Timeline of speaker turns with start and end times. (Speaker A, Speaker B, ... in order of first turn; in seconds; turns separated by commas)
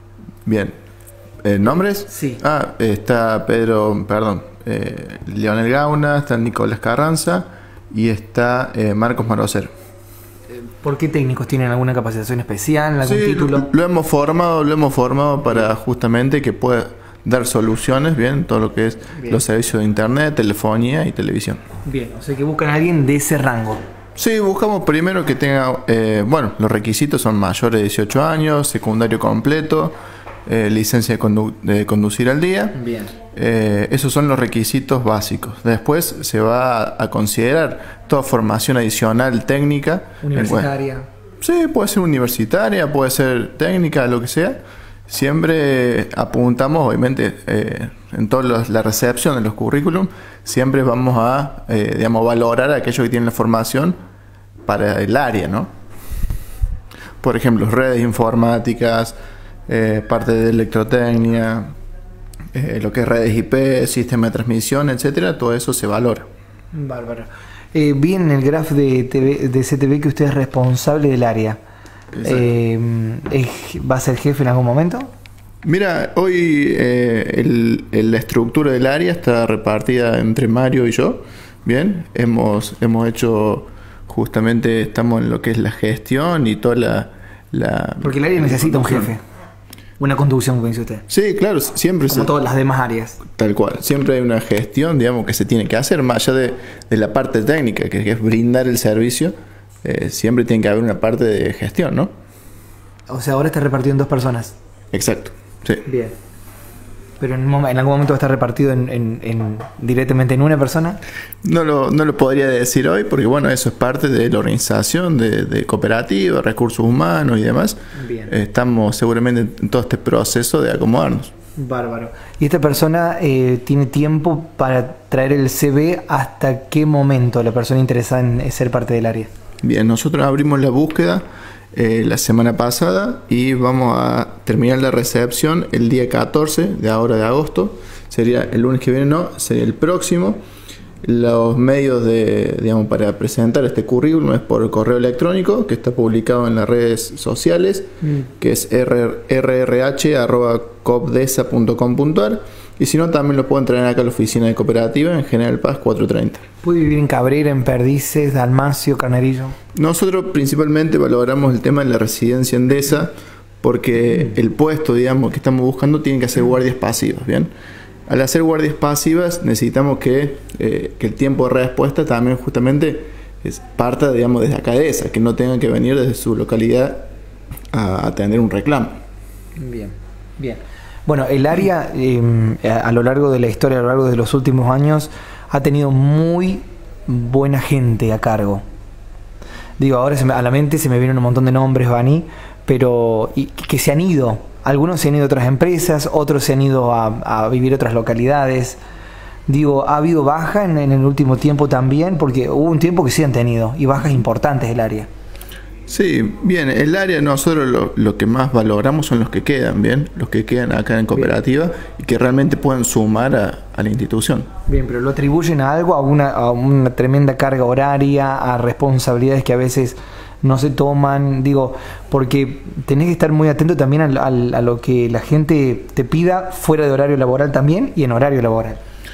Speaker A: 0.5-0.7, Speaker A: 1.4-9.7, Speaker B: 2.1-2.4, Speaker B: 10.5-13.7, Speaker A: 13.0-21.6, Speaker B: 21.9-23.8, Speaker A: 24.2-32.8, Speaker B: 32.8-33.1, Speaker A: 33.3-40.7, Speaker B: 40.2-41.1, Speaker A: 41.4-54.0, Speaker A: 54.6-55.7, Speaker A: 57.2-59.2, Speaker A: 59.7-61.7, Speaker A: 62.5-66.3, Speaker B: 66.7-71.6, Speaker A: 72.1-72.5, Speaker B: 72.2-75.1, Speaker A: 75.6-89.1, Speaker B: 88.0-89.2, Speaker B: 90.0-91.0, Speaker A: 91.1-92.3, Speaker B: 92.1-93.2, Speaker A: 93.3-102.1, Speaker B: 103.1-104.5, Speaker A: 104.9-105.8, Speaker B: 105.9-106.1, Speaker B: 107.2-111.0, Speaker A: 111.4-121.3, Speaker B: 118.0-118.3, Speaker B: 121.6-129.3, Speaker A: 129.6-140.4, Speaker A: 141.0-147.9, Speaker A: 148.4-156.4, Speaker B: 156.6-159.6, Speaker A: 159.8-163.1, Speaker A: 163.6-167.5, Speaker A: 168.1-177.1, Speaker A: 177.7-179.0, Speaker B: 179.6-188.6, Speaker B: 189.8-198.8, Speaker B: 199.5-205.1, Speaker A: 205.9-214.5, Speaker B: 214.7-228.8